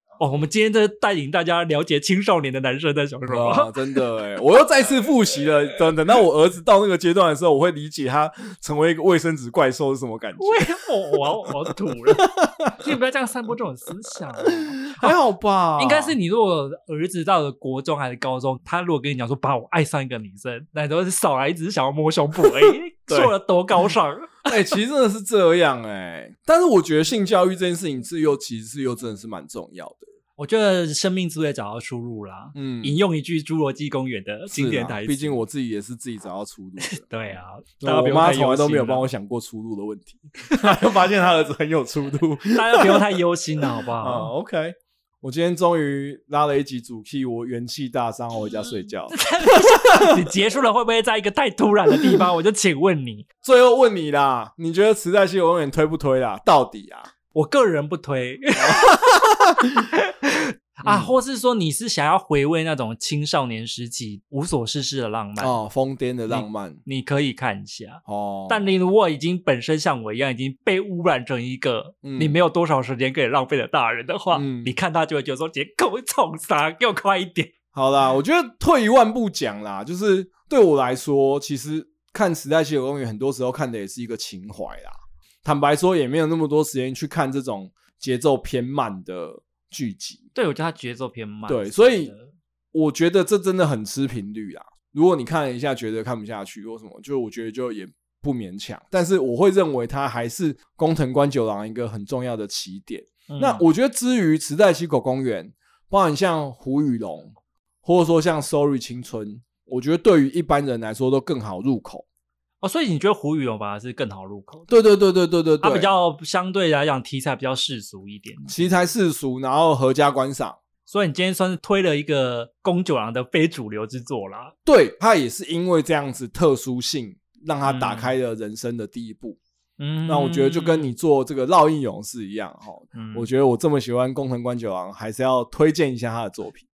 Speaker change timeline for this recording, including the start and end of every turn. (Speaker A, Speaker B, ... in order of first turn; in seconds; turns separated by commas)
Speaker A: 0.2-3.8, Speaker B: 3.3-10.7, Speaker A: 10.4-12.3, Speaker B: 12.1-12.7, Speaker A: 12.8-15.1, Speaker B: 14.5-16.1, Speaker A: 15.8-24.5, Speaker B: 22.4-23.3, Speaker B: 24.4-30.1, Speaker A: 30.4-35.4, Speaker B: 32.5-33.0, Speaker B: 34.5-37.2, Speaker A: 36.8-39.1, Speaker B: 37.8-43.2, Speaker A: 42.5-44.3, Speaker B: 44.0-50.3, Speaker A: 49.1-53.3, Speaker B: 53.4-57.1, Speaker A: 57.3-59.0, Speaker B: 58.6-59.9, Speaker A: 60.0-65.5, Speaker B: 60.8-61.1, Speaker B: 65.4-66.8, Speaker A: 66.3-77.5, Speaker B: 68.1-68.6, Speaker B: 72.0-72.4, Speaker B: 74.3-74.7, Speaker B: 77.7-90.2, Speaker A: 90.3-92.3, Speaker B: 91.5-92.1, Speaker B: 92.7-112.0, Speaker A: 103.3-103.7, Speaker A: 112.6-114.7, Speaker B: 114.7-115.9, Speaker A: 115.6-118.7, Speaker B: 118.5-120.6, Speaker A: 120.9-124.5, Speaker B: 124.7-129.4, Speaker A: 127.6-128.1, Speaker A: 129.8-130.9, Speaker B: 130.1-136.7, Speaker A: 132.9-133.3